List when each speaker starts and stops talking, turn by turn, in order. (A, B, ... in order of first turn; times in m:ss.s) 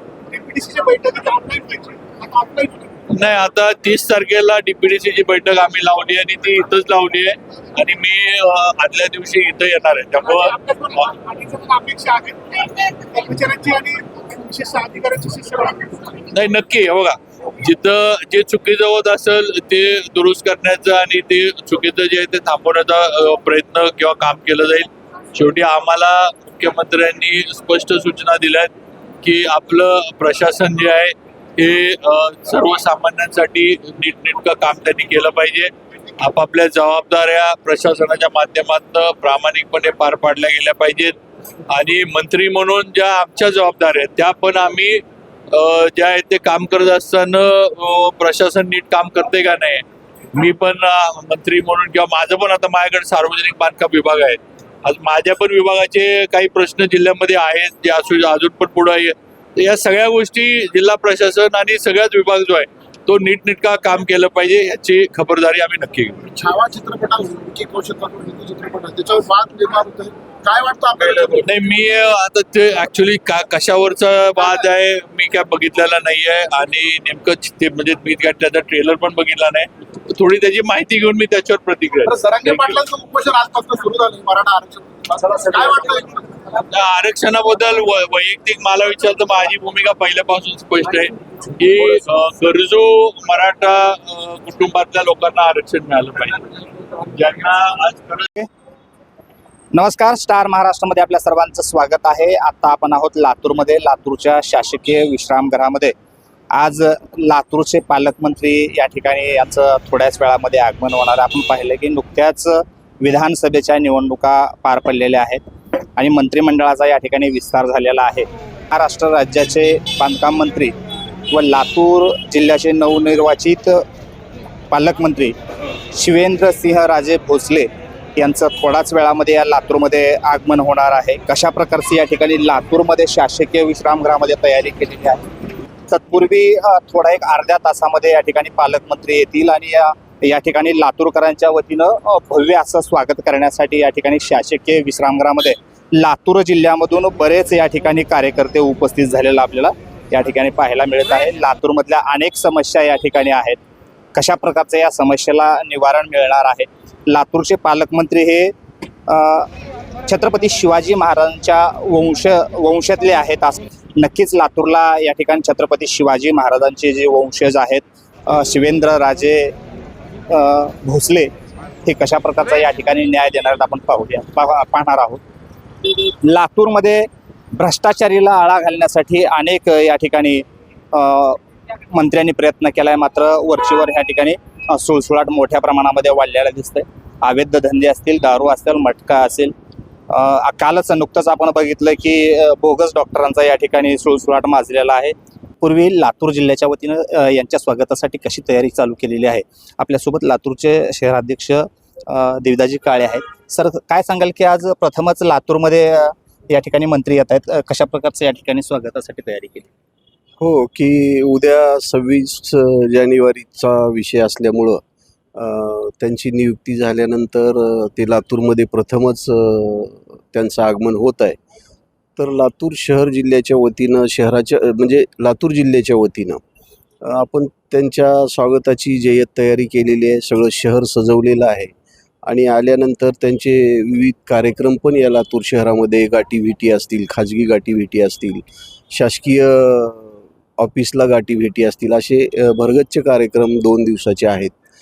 0:00.3-0:02.9 A
0:03.1-0:11.1 B
0:10.3-0:15.9 A
0:16.3-0:28.7 B
0:29.2-0:35.7 B
0:36.2-0:41.2 B
0:41.7-0:49.8 B
0:50.3-1:06.2 B
1:06.3-1:11.4 A
1:11.0-1:22.8 B
1:22.1-1:26.3 A
1:26.7-1:36.5 B
1:37.1-1:38.3 B
1:39.7-1:46.0 C
1:46.5-1:55.4 C
1:56.0-2:00.8 C
2:01.3-2:03.8 C
2:04.7-2:05.4 C
2:05.9-2:15.2 C
2:15.9-2:33.6 C
2:34.1-2:38.5 C
2:39.1-2:39.5 C
2:40.1-2:49.5 C
2:50.3-2:51.3 C
2:51.8-2:55.2 C
2:56.2-3:01.4 C
3:01.9-3:09.6 C
3:10.1-3:29.7 C
3:30.4-3:34.8 D
3:35.4-3:41.4 D
3:42.2-3:46.4 D
3:47.0-3:51.7 D
3:52.3-4:04.5 D